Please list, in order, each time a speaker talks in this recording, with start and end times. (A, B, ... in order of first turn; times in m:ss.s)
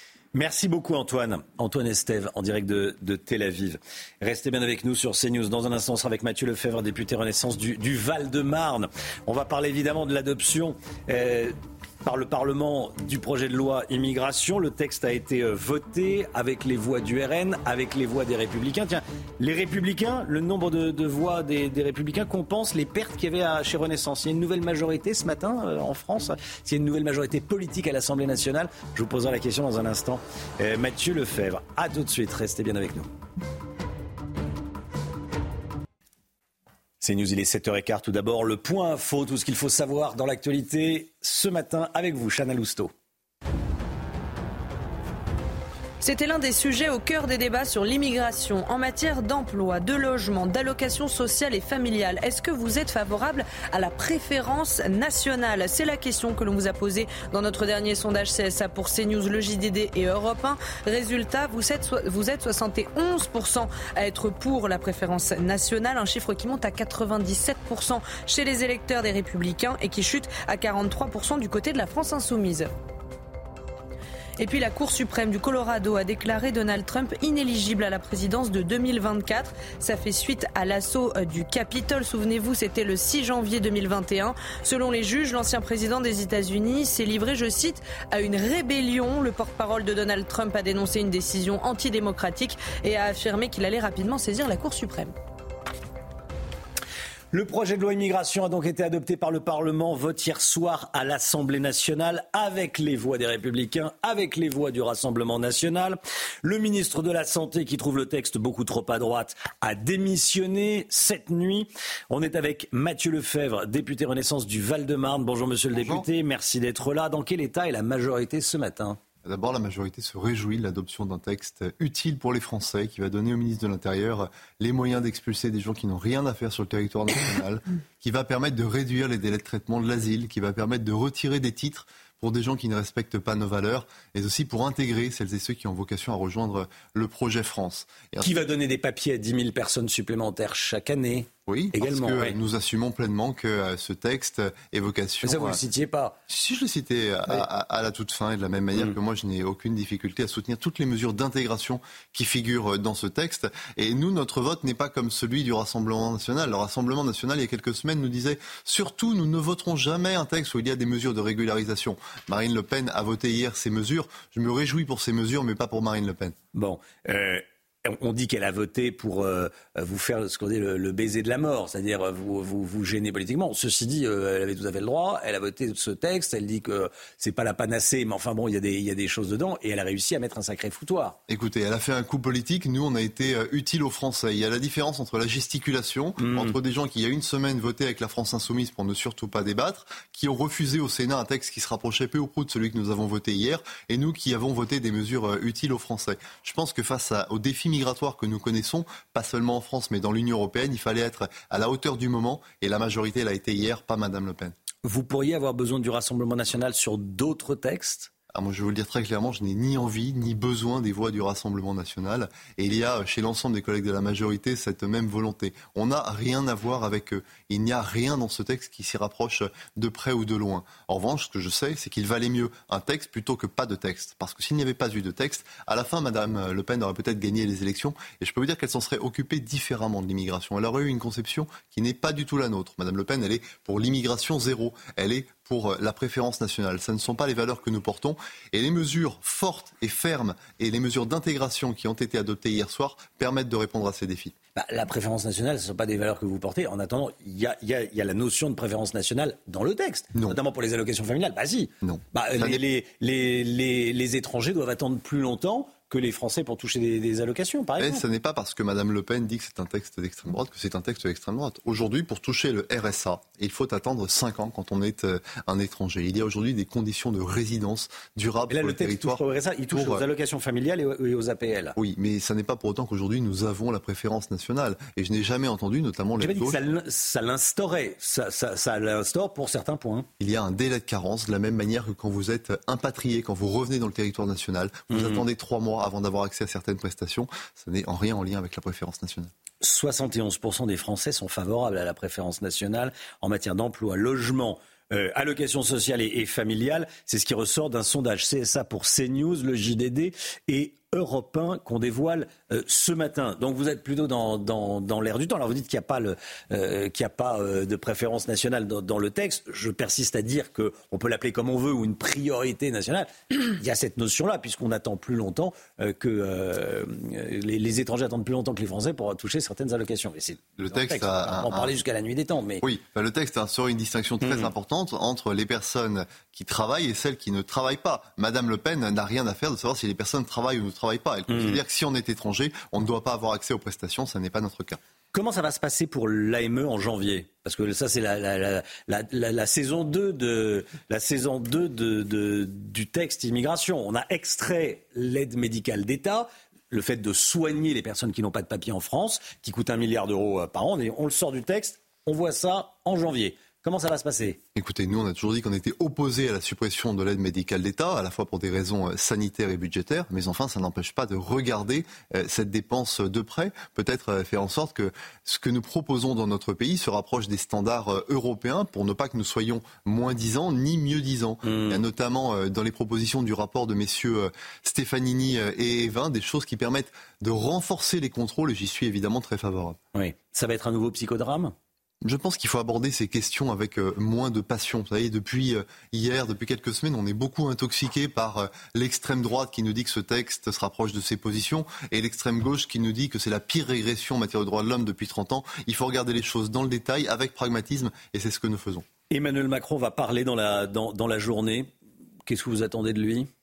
0:00.3-0:33.1 A
0:37.0-0:42.9 A
0:46.0-1:12.7 B
1:14.4-1:35.1 B
1:37.3-1:59.0 A
1:55.7-1:56.0 C
1:59.2-2:18.4 C
2:18.2-2:22.4 A
2:21.4-2:25.6 C
2:25.2-2:26.2 A
2:26.3-2:46.4 C
2:46.5-3:01.2 A
3:01.3-3:24.5 C
3:06.2-3:06.6 A
3:24.8-3:28.1 A
3:28.3-4:04.3 C
4:04.5-4:18.0 A
4:11.8-4:12.6 C
4:17.8-4:30.0 C
4:28.5-4:31.8 A
4:31.8-4:36.6 C
4:36.2-4:40.1 A
4:40.2-4:49.3 C
4:44.9-4:45.2 A
4:49.6-5:22.6 A
5:20.5-5:21.7 C
5:22.6-5:34.8 C
5:24.2-5:24.5 A
5:31.3-5:31.6 A
5:35.1-5:54.4 A
5:54.6-6:19.8 C
6:11.4-6:11.8 A
6:19.9-6:21.5 A
6:22.0-6:38.8 C
6:39.1-6:41.7 A
6:42.3-6:43.3 A